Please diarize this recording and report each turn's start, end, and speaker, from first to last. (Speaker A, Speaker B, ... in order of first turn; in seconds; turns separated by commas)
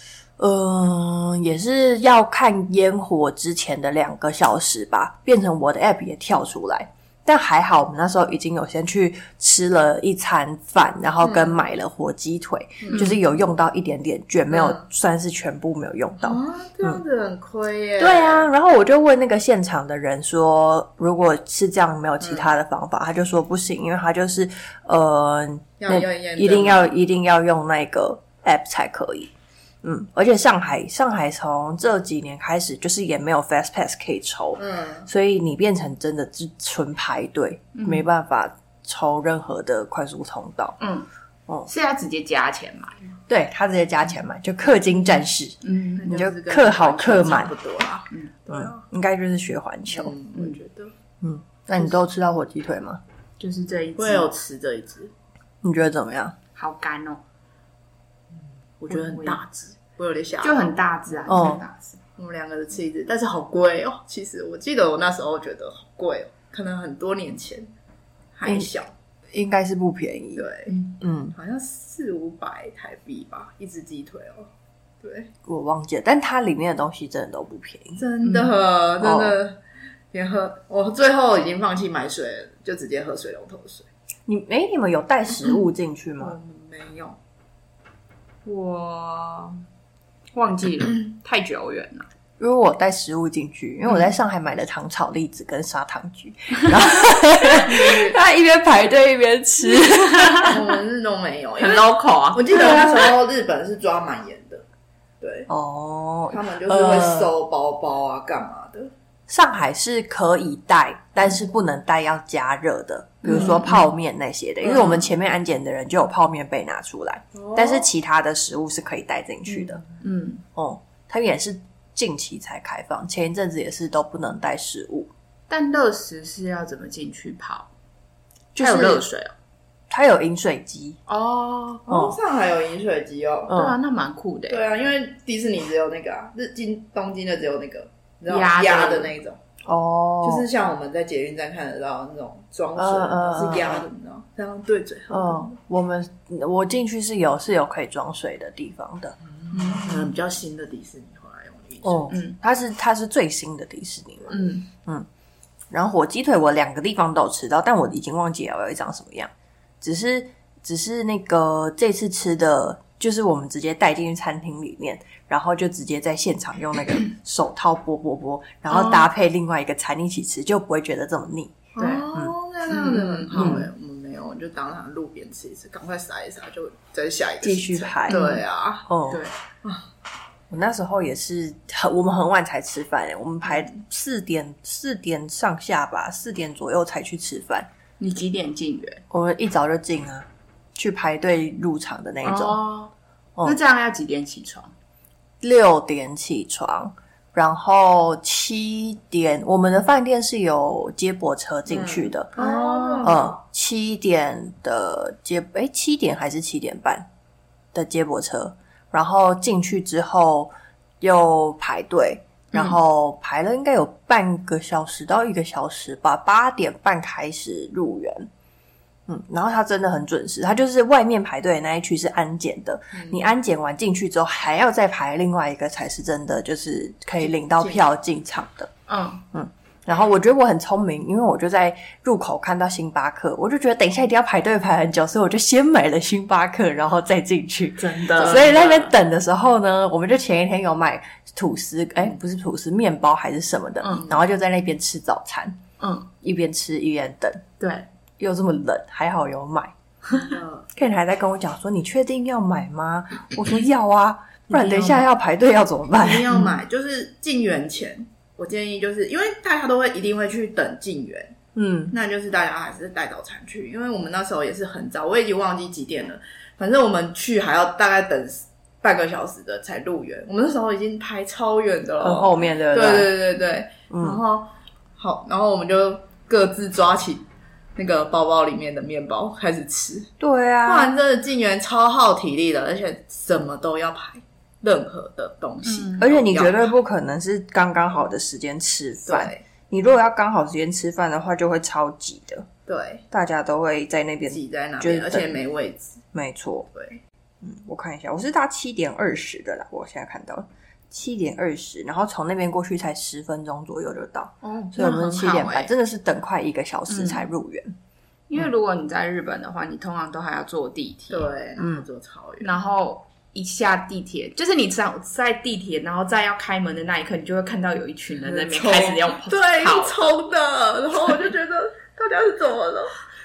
Speaker A: 0.4-17.0, Speaker B: 11.2-11.5, Speaker B: 12.8-13.1, Speaker C: 12.9-13.2, Speaker B: 14.5-14.8, Speaker B: 16.2-18.5, Speaker A: 18.0-29.3, Speaker B: 22.2-22.5, Speaker B: 25.8-26.9, Speaker A: 29.8-40.8, Speaker B: 34.6-35.1, Speaker C: 37.7-38.1, Speaker C: 40.8-41.1, Speaker C: 41.7-43.2, Speaker A: 43.3-47.5, Speaker C: 45.6-46.2, Speaker B: 46.0-48.8, Speaker A: 48.5-50.1, Speaker B: 49.9-50.9, Speaker A: 51.2-53.0, Speaker C: 53.4-54.3, Speaker B: 54.0-55.1, Speaker A: 55.6-56.4, Speaker C: 56.6-57.2, Speaker B: 58.8-61.3, Speaker C: 58.9-59.4, Speaker C: 60.4-62.0, Speaker A: 61.3-61.6, Speaker B: 62.2-67.7, Speaker B: 68.3-68.9, Speaker A: 69.3-70.5, Speaker B: 70.4-70.7, Speaker C: 70.7-71.0, Speaker A: 71.0-71.3, Speaker B: 71.3-74.5, Speaker B: 75.0-75.3, Speaker A: 75.5-78.0, Speaker B: 78.0-79.6, Speaker C: 78.2-78.6, Speaker A: 79.0-79.4, Speaker B: 80.1-83.9, Speaker A: 84.3-86.3, Speaker B: 86.2-87.2, Speaker C: 88.5-89.6, Speaker C: 90.3-92.1, Speaker A: 92.4-100.6, Speaker C: 97.7-98.0, Speaker B: 97.7-98.1, Speaker C: 99.8-100.5, Speaker B: 100.4-104.7, Speaker C: 101.6-102.9, Speaker A: 102.5-103.2, Speaker B: 105.2-105.5, Speaker A: 105.5-107.3, Speaker B: 106.3-108.9, Speaker A: 109.3-119.8, Speaker C: 113.2-113.9, Speaker B: 117.3-117.9, Speaker C: 119.9-120.4, Speaker A: 120.5-125.1, Speaker C: 125.5-127.7, Speaker A: 128.6-129.1, Speaker C: 128.6-129.3, Speaker A: 129.9-131.0, Speaker C: 131.1-131.9, Speaker B: 131.9-133.6, Speaker A: 131.9-132.2, Speaker A: 133.5-133.8, Speaker C: 133.5-134.6, Speaker B: 134.5-139.4, Speaker C: 138.3-139.2, Speaker A: 139.7-140.5, Speaker B: 140.2-145.6, Speaker A: 142.8-143.8, Speaker A: 145.1-149.2, Speaker B: 149.5-152.2, Speaker C: 149.6-150.0, Speaker A: 151.8-155.1, Speaker C: 152.1-152.4, Speaker C: 154.3-154.7, Speaker A: 155.7-172.3, Speaker C: 168.7-169.1, Speaker B: 171.8-179.9, Speaker C: 171.8-172.1, Speaker C: 172.7-173.7, Speaker A: 177.4-178.2, Speaker C: 178.1-178.4, Speaker A: 178.9-179.2, Speaker A: 180.5-187.7, Speaker C: 188.0-189.0, Speaker A: 189.1-192.6, Speaker C: 192.2-192.9, Speaker C: 193.4-194.7, Speaker A: 195.4-202.3, Speaker B: 201.7-203.4, Speaker C: 202.3-203.2, Speaker A: 203.0-207.1, Speaker A: 207.7-218.3, Speaker C: 212.5-212.8, Speaker A: 219.1-228.7, Speaker B: 222.9-223.3, Speaker B: 227.2-227.8, Speaker C: 228.9-229.2, Speaker A: 229.3-245.6, Speaker C: 237.8-238.9, Speaker B: 238.2-238.6, Speaker C: 243.8-244.1, Speaker C: 245.8-246.1, Speaker A: 246.2-247.4, Speaker C: 247.6-247.9, Speaker A: 248.2-249.7, Speaker B: 250.1-250.7, Speaker A: 250.7-256.3, Speaker C: 254.5-255.1, Speaker B: 255.9-261.4, Speaker A: 261.6-261.9, Speaker B: 261.9-277.2, Speaker A: 272.0-273.1, Speaker A: 273.9-274.2, Speaker B: 277.8-280.1, Speaker A: 280.2-280.9, Speaker B: 280.6-286.7, Speaker C: 285.6-286.1, Speaker A: 286.0-292.5, Speaker B: 289.1-289.4, Speaker B: 292.7-293.0, Speaker A: 293.1-295.3, Speaker B: 294.3-296.0, Speaker A: 296.1-296.7, Speaker B: 296.7-297.0, Speaker A: 297.4-307.7, Speaker C: 304.4-305.7, Speaker C: 306.9-307.3, Speaker C: 308.3-311.3, Speaker B: 311.1-312.5, Speaker A: 311.6-311.9, Speaker C: 312.4-320.1, Speaker B: 318.3-323.0